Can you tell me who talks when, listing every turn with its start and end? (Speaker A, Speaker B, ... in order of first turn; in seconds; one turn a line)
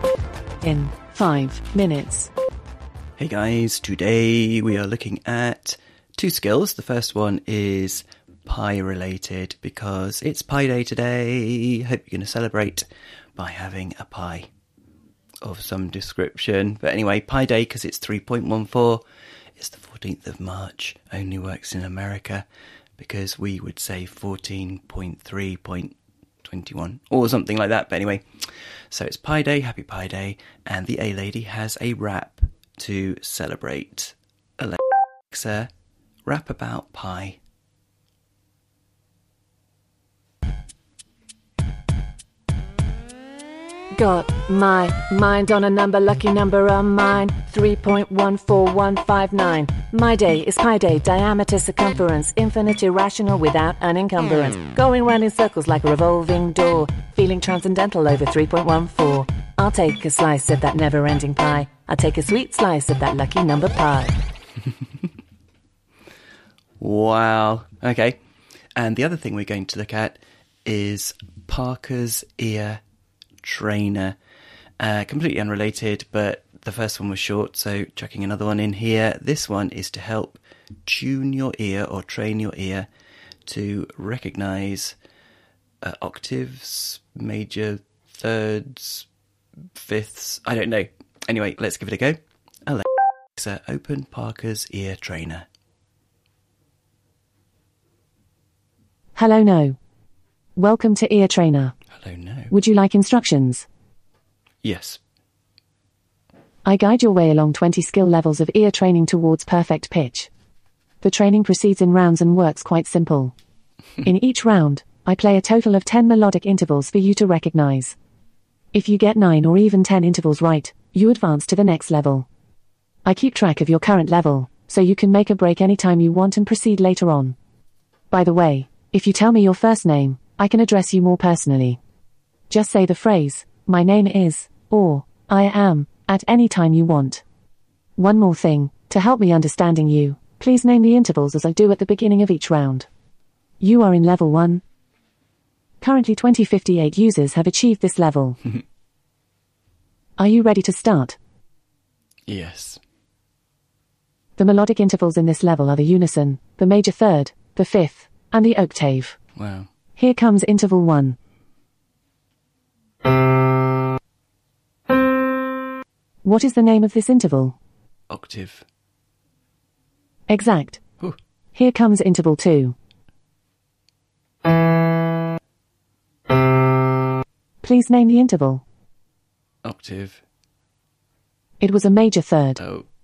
Speaker A: 0.6-2.3
Speaker B: 3.2-12.8
Speaker B: 13.3-14.5
Speaker B: 15.4-19.0
Speaker B: 19.6-22.4
Speaker B: 23.0-28.2
Speaker B: 28.9-35.7
Speaker B: 36.2-37.4
Speaker A: 43.9-64.2
Speaker B: 66.8-68.2
Speaker B: 68.8-72.8
Speaker B: 73.4-74.2
Speaker B: 74.8-82.9
Speaker B: 83.5-85.0
Speaker B: 85.8-89.1
Speaker B: 89.8-95.5
Speaker A: 99.2-99.8
Speaker A: 100.5-101.7
Speaker B: 101.9-102.5
Speaker A: 102.5-103.7
Speaker B: 104.6-105.0
Speaker A: 106.6-110.3
Speaker A: 111.0-113.3
Speaker A: 114.0-118.0
Speaker A: 118.7-122.3
Speaker A: 123.0-127.4
Speaker A: 128.1-131.8
Speaker A: 132.5-137.2
Speaker A: 138.0-142.9
Speaker A: 143.6-144.6
Speaker A: 145.8-148.4
Speaker A: 150.2-151.2
Speaker B: 152.3-152.8
Speaker A: 154.4-159.2
Speaker B: 159.3-159.7
Speaker A: 160.0-161.2
Speaker A: 166.2-167.6
Speaker B: 168.1-168.6
Speaker A: 170.3-170.8
Speaker A: 171.5-172.7
Speaker A: 177.6-178.6
Speaker B: 179.6-180.2
Speaker A: 181.6-182.6
Speaker B: 182.6-182.8